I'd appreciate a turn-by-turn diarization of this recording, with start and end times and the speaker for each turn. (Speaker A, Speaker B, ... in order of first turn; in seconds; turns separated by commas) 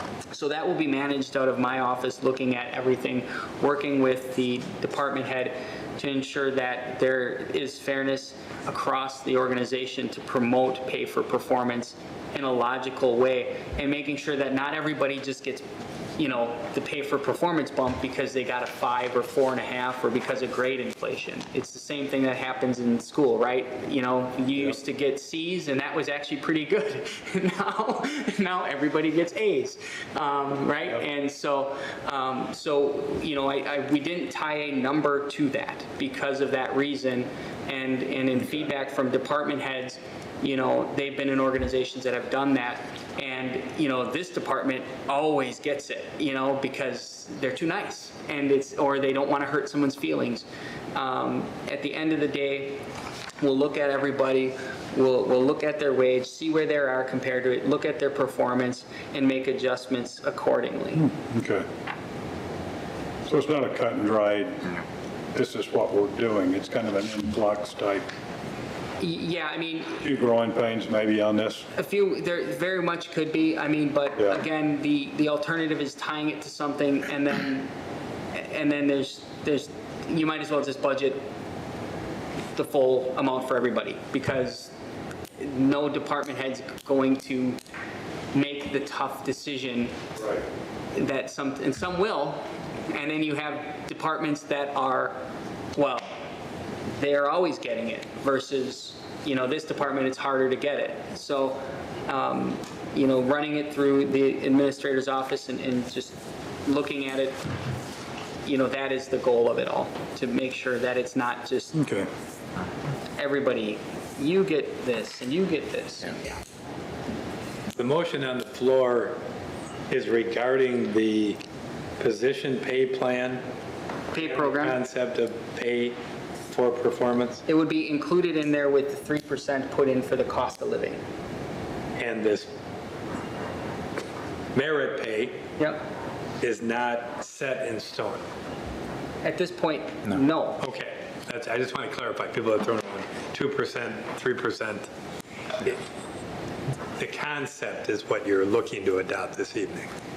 Speaker A: 0.3-15.7, Speaker A: 16.2-52.8, Speaker A: 53.4-61.1, Speaker B: 61.1-61.7, Speaker B: 63.3-64.8, Speaker B: 65.3-68.1, Speaker A: 69.0-70.0, Speaker B: 70.0-71.7, Speaker A: 71.7-77.7, Speaker A: 78.3-81.2, Speaker A: 82.5-84.7, Speaker A: 85.4-87.6, Speaker A: 88.3-90.2, Speaker A: 90.9-95.2, Speaker A: 95.7-96.1, Speaker A: 96.9-107.4, Speaker A: 108.4-111.8, Speaker B: 111.7-112.1, Speaker A: 113.2-116.4, Speaker C: 117.7-119.2, Speaker C: 119.9-121.4, Speaker C: 122.0-123.4, Speaker A: 124.1-124.8, Speaker C: 124.1-127.4, Speaker A: 127.5-131.0, Speaker C: 131.9-132.5, Speaker C: 134.5-135.4, Speaker C: 136.4-138.2, Speaker A: 139.2-140.6, Speaker C: 140.6-144.9, Speaker C: 145.6-145.8, Speaker C: 147.0-149.9